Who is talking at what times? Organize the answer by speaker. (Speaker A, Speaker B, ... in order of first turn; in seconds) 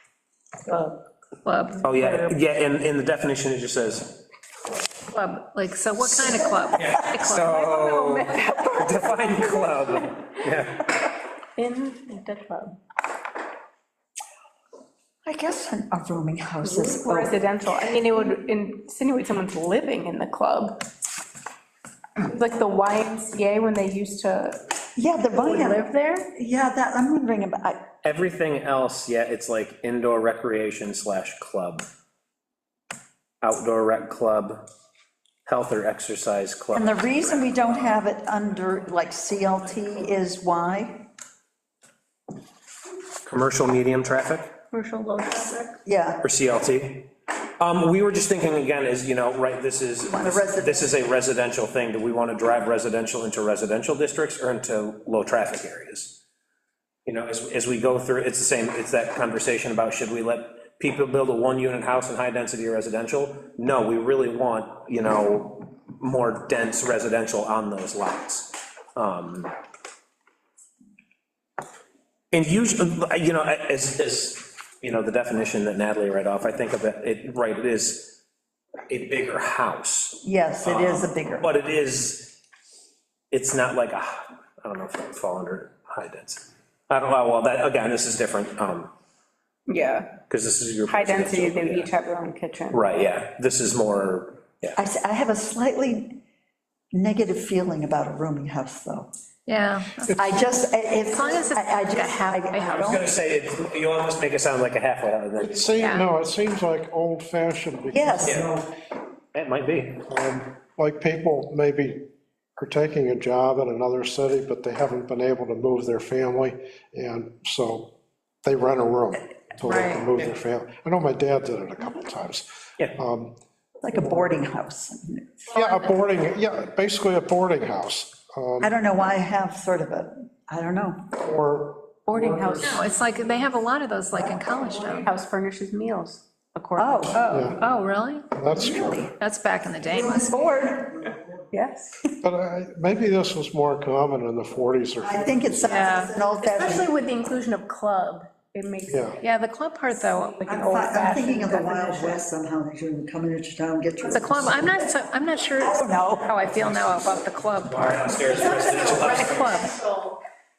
Speaker A: 0.7-0.9, 7.3-10.4, 11.6-12.8, 16.6-20.8, 22.2-24.6, 25.4-26.3, 44.7-45.8, 89.7-90.2, 90.9-92.9, 132.1-132.8, 135.0-137.6, 141.5-142.0, 146.4-149.2, 150.1-152.2, 158.4-160.1
Speaker B: 1.4-1.9, 5.1-7.6, 99.5-100.5, 101.1-102.9, 105.8-106.1, 119.6-120.1, 125.6-125.9, 132.6-135.1, 137.2-138.4, 138.9-140.4, 145.7-146.1, 149.2-150.4, 154.0-158.1, 158.9-159.7
Speaker C: 1.8-4.2, 6.7-10.9, 28.0-31.9, 33.4-34.7, 35.5-37.9, 43.2-44.5, 46.2-56.2, 57.1-69.5, 72.3-78.2, 78.9-82.4, 83.3-88.9, 90.3-91.9, 92.7-94.8, 102.8-105.8, 108.2-108.5, 109.3-110.0, 157.7-159.5
Speaker D: 15.2-17.3, 25.0-27.9, 36.7-41.1, 45.8-46.2, 50.0-50.9, 80.2-81.5, 94.8-96.2, 96.9-99.1, 100.1-103.0, 107.9-108.6, 123.8-125.6, 128.6-131.2, 136.8-137.3, 138.5-139.1, 139.9-141.1, 145.0-146.9, 150.5-154.8, 155.6-156.3
Speaker E: 105.4-108.6, 110.1-112.0, 112.6-117.9, 118.4-123.3, 125.5-128.8, 131.2-132.9, 137.3-137.6, 138.3-139.1, 142.2-146.1, 148.9-149.2